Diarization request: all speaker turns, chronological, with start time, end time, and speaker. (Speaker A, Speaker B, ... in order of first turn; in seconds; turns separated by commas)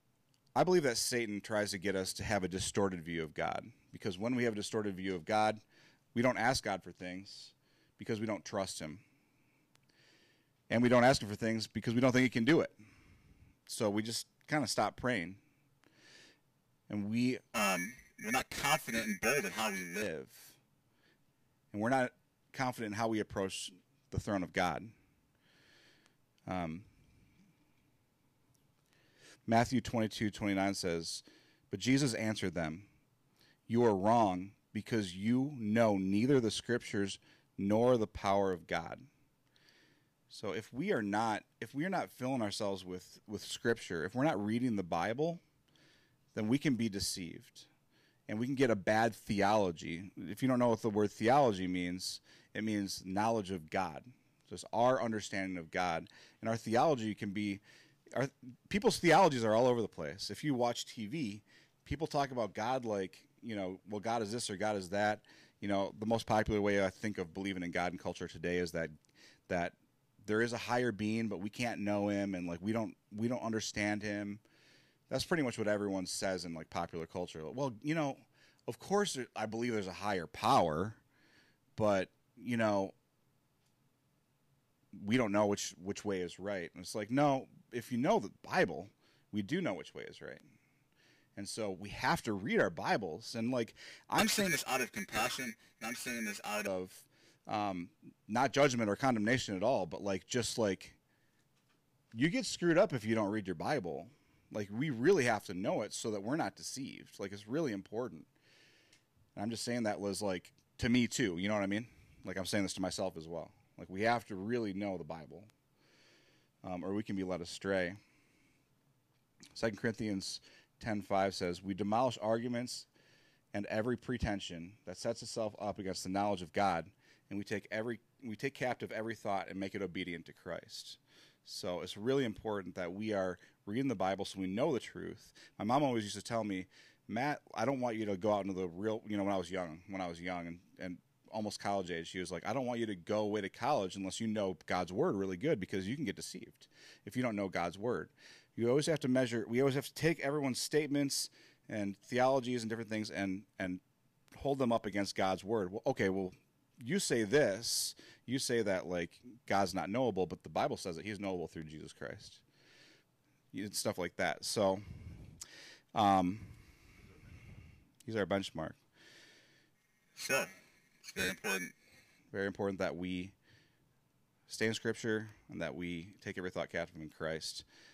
Speaker A: 0.6-5.6, Speaker A: 6.1-9.0, Speaker A: 10.7-12.8, Speaker A: 13.7-15.4, Speaker A: 16.9-17.4, Speaker B: 17.5-20.0, Speaker A: 20.0-20.6, Speaker A: 21.7-24.9, Speaker A: 26.5-26.9, Speaker A: 29.5-32.9, Speaker A: 33.7-39.1, Speaker A: 40.3-45.4, Speaker A: 46.4-47.7, Speaker A: 48.3-69.0, Speaker A: 69.5-74.4, Speaker A: 75.1-81.0, Speaker A: 81.8-82.9, Speaker A: 84.9-90.5, Speaker A: 91.4-94.6, Speaker B: 94.2-96.7, Speaker A: 96.7-101.0, Speaker A: 102.1-108.3, Speaker A: 109.3-115.5, Speaker A: 116.6-118.0, Speaker A: 119.5-122.9, Speaker A: 123.5-153.8, Speaker A: 154.3-162.4, Speaker A: 163.5-165.1, Speaker A: 165.9-166.6, Speaker A: 168.1-168.8, Speaker B: 170.2-171.8, Speaker A: 172.3-173.3, Speaker A: 174.5-177.7